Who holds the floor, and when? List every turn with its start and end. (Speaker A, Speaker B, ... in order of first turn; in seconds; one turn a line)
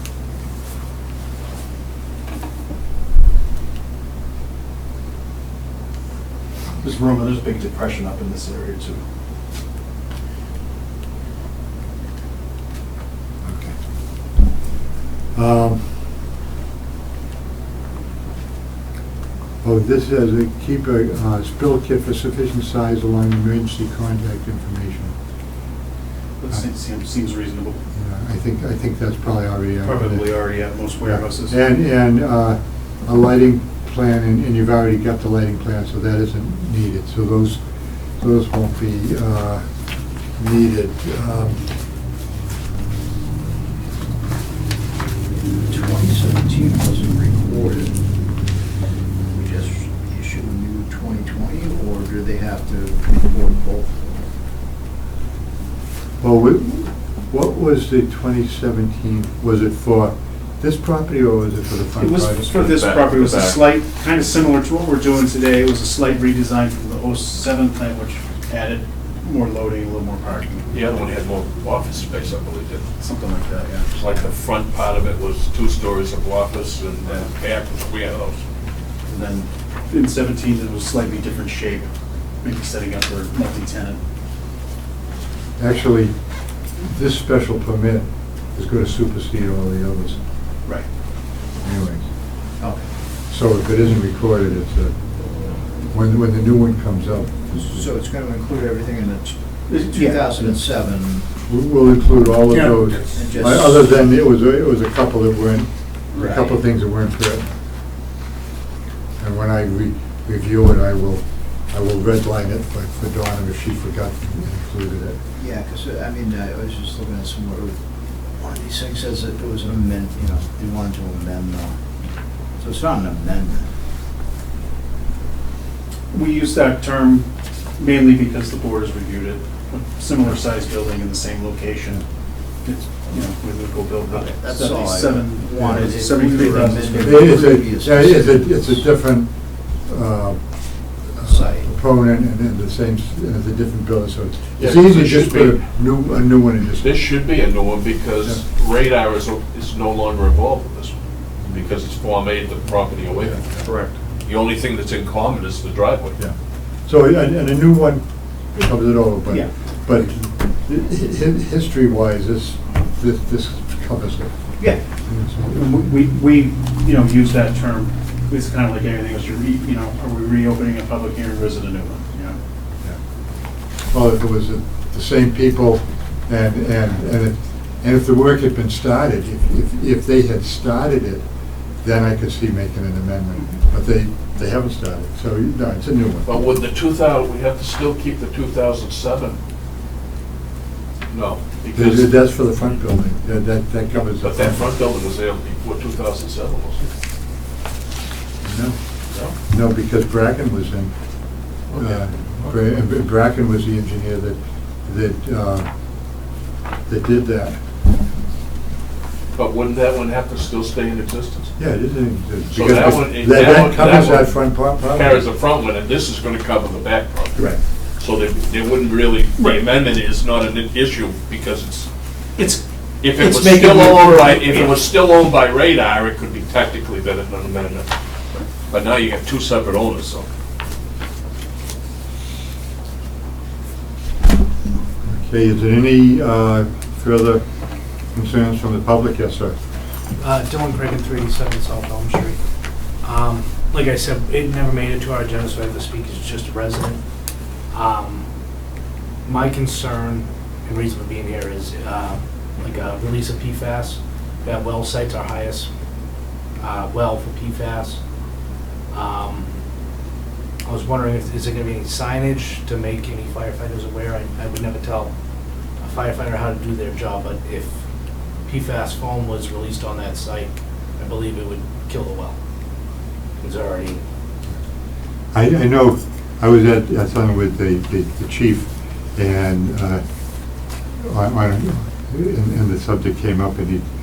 Speaker A: 6.8-9.0
Speaker B: 13.4-13.8
Speaker B: 15.3-15.9
Speaker B: 19.6-25.1
Speaker A: 26.4-27.8
Speaker B: 27.9-30.3
Speaker A: 29.8-31.6
Speaker B: 31.0-37.6
Speaker B: 38.2-39.6
Speaker B: 40.4-41.6
Speaker C: 45.7-48.0
Speaker C: 49.3-54.3
Speaker B: 56.2-62.8
Speaker A: 62.0-70.7
Speaker D: 62.6-63.6
Speaker D: 70.7-72.9
Speaker A: 73.0-73.9
Speaker D: 73.9-78.4
Speaker A: 79.1-81.9
Speaker A: 82.4-84.0
Speaker B: 85.6-86.1
Speaker B: 86.8-90.2
Speaker B: 91.6-92.1
Speaker B: 93.3-95.0
Speaker B: 95.9-97.8
Speaker C: 97.5-101.3
Speaker A: 99.7-100.2
Speaker B: 101.5-107.5
Speaker A: 102.5-103.0
Speaker C: 103.1-104.0
Speaker A: 106.1-106.5
Speaker B: 109.2-115.2
Speaker C: 115.4-117.8
Speaker C: 118.3-121.8
Speaker C: 122.6-123.7
Speaker A: 126.1-132.0
Speaker A: 132.6-137.5
Speaker C: 134.1-138.8
Speaker B: 137.0-139.3
Speaker B: 139.8-140.4
Speaker B: 141.2-147.1
Speaker C: 141.2-141.7
Speaker D: 144.6-145.6
Speaker D: 146.8-151.0
Speaker D: 151.5-153.7
Speaker A: 153.7-153.9
Speaker D: 154.2-156.2
Speaker B: 156.8-158.0
Speaker B: 158.5-164.3
Speaker B: 165.1-165.7
Speaker A: 165.4-172.4
Speaker B: 173.9-181.2
Speaker B: 181.8-186.3
Speaker D: 186.2-189.4
Speaker D: 191.1-192.2
Speaker B: 191.7-194.7
Speaker D: 194.2-196.8
Speaker B: 198.4-198.8
Speaker B: 199.5-200.9
Speaker D: 201.7-202.5
Speaker B: 201.8-205.7
Speaker B: 206.9-207.6
Speaker D: 209.3-211.5
Speaker B: 211.6-215.2
Speaker D: 212.5-221.9
Speaker D: 223.0-227.9
Speaker A: 223.2-224.8
Speaker D: 228.7-230.3
Speaker B: 235.1-237.4
Speaker B: 238.1-239.6
Speaker E: 240.2-242.4
Speaker E: 243.0-247.0
Speaker E: 247.7-248.2
Speaker E: 249.2-255.7
Speaker E: 256.6-258.0
Speaker E: 258.9-259.5
Speaker E: 260.6-265.1
Speaker E: 265.8-267.7
Speaker E: 268.4-272.3
Speaker E: 273.4-274.0
Speaker B: 275.3-280.0
Speaker B: 281.0-283.8